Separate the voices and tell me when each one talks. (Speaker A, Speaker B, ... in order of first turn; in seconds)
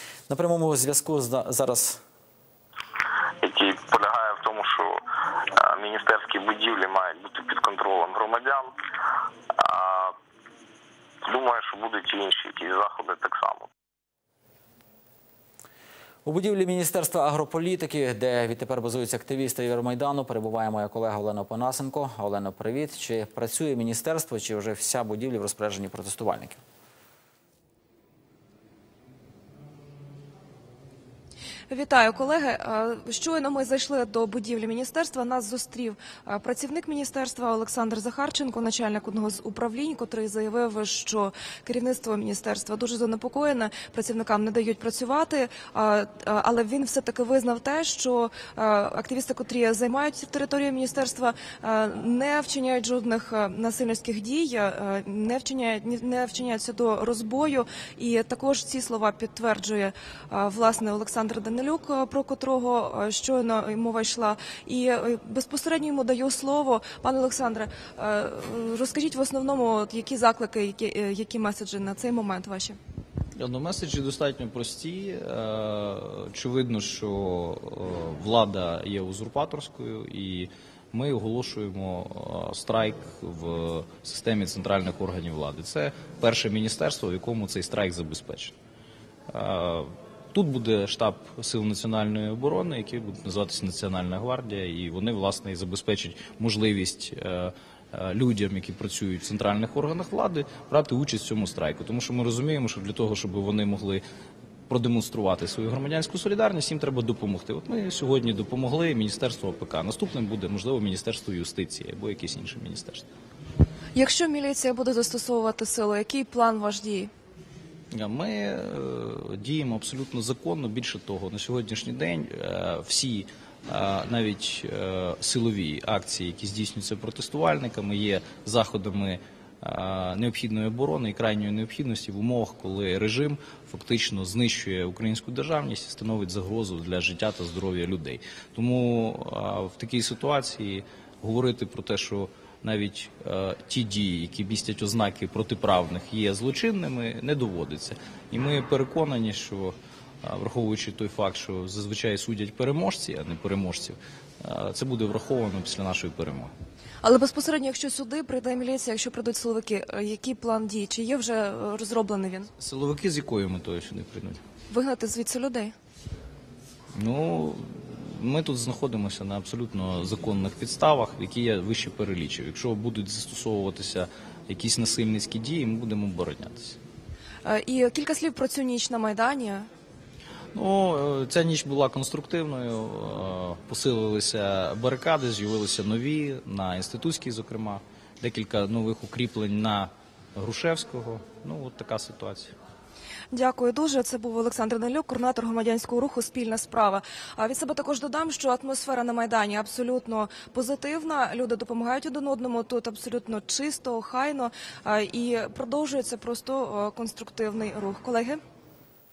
Speaker A: 0.3-2.0, 16.2-26.6
Speaker B: 3.4-5.0, 5.6-8.7, 9.5-10.2, 11.2-13.7
Speaker C: 31.7-72.8, 114.0-117.1, 157.0-162.5, 164.7-165.8, 177.4-179.7, 193.3-208.4
Speaker D: 73.4-88.5, 89.3-104.0, 104.7-113.1, 117.9-156.5, 162.6-164.4, 166.9-176.8, 180.5-192.6